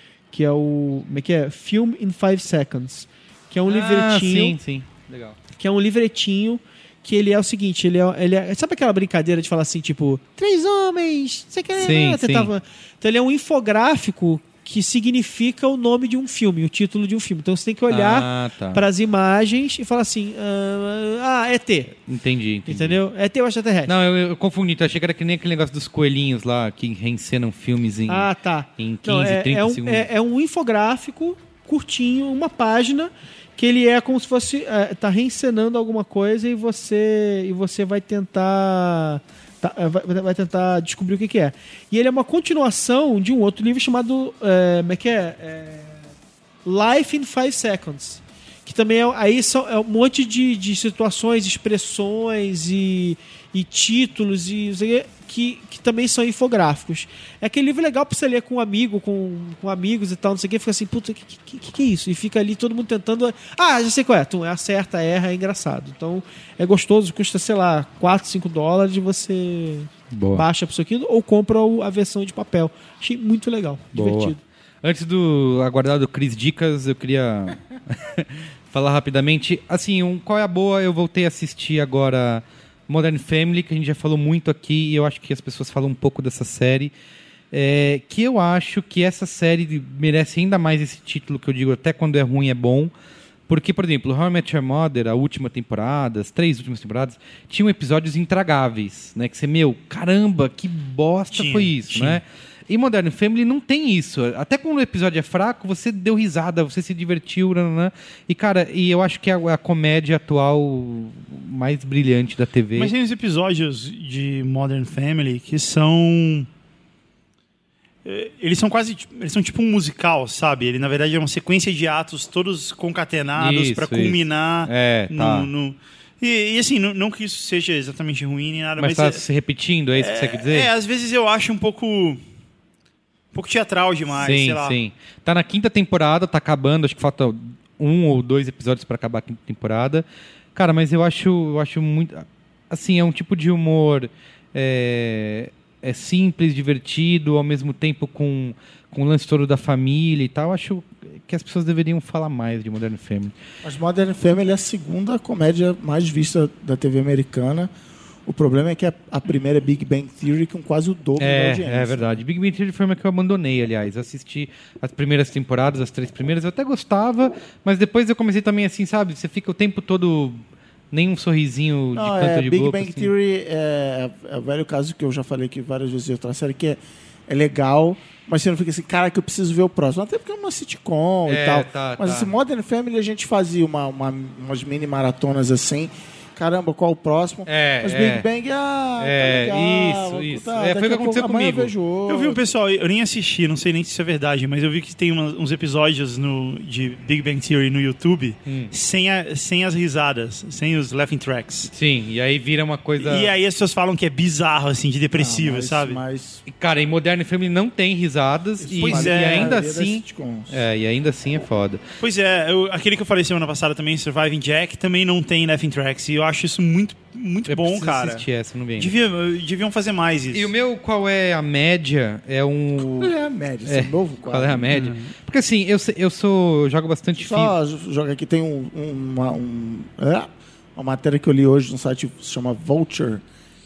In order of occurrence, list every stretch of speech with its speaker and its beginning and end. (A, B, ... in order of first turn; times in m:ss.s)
0:00.3-0:04.6 A
0:03.7-0:05.4 B
0:05.6-0:22.0 A
0:11.7-0:12.5 B
0:17.9-0:18.8 B
0:22.0-0:23.0 B
0:22.7-0:23.9 A
0:23.9-0:30.1 B
0:28.1-0:46.1 A
0:46.6-1:14.4 A
1:10.1-1:10.4 B
1:13.9-1:26.9 B
1:27.5-1:32.9 B
1:33.5-1:52.9 B
1:41.3-1:42.2 C
1:52.7-1:56.5 C
1:58.0-2:09.2 C
2:03.4-2:05.5 B
2:08.8-2:10.7 B
2:09.9-2:12.2 C
2:13.3-2:14.8 C
2:14.1-2:33.3 B
2:33.6-2:37.7 D
2:38.2-2:42.2 D
2:41.2-2:53.1 B
2:51.9-3:12.4 D
3:01.2-3:02.3 B
3:07.5-3:08.2 B
3:09.0-3:11.7 B
3:12.1-3:21.7 C
3:18.4-3:18.7 B
3:21.7-3:23.3 B
3:23.0-3:26.0 C
3:25.1-3:26.4 D
3:26.5-3:31.8 B
3:28.6-3:30.6 D
3:28.8-3:29.6 C
3:32.0-3:38.2 C
3:37.5-3:38.9 B
3:38.8-3:40.5 C
3:40.3-3:43.1 B
3:42.8-3:44.8 D
3:43.7-3:47.5 B
3:44.7-3:45.1 C
3:47.2-3:53.2 D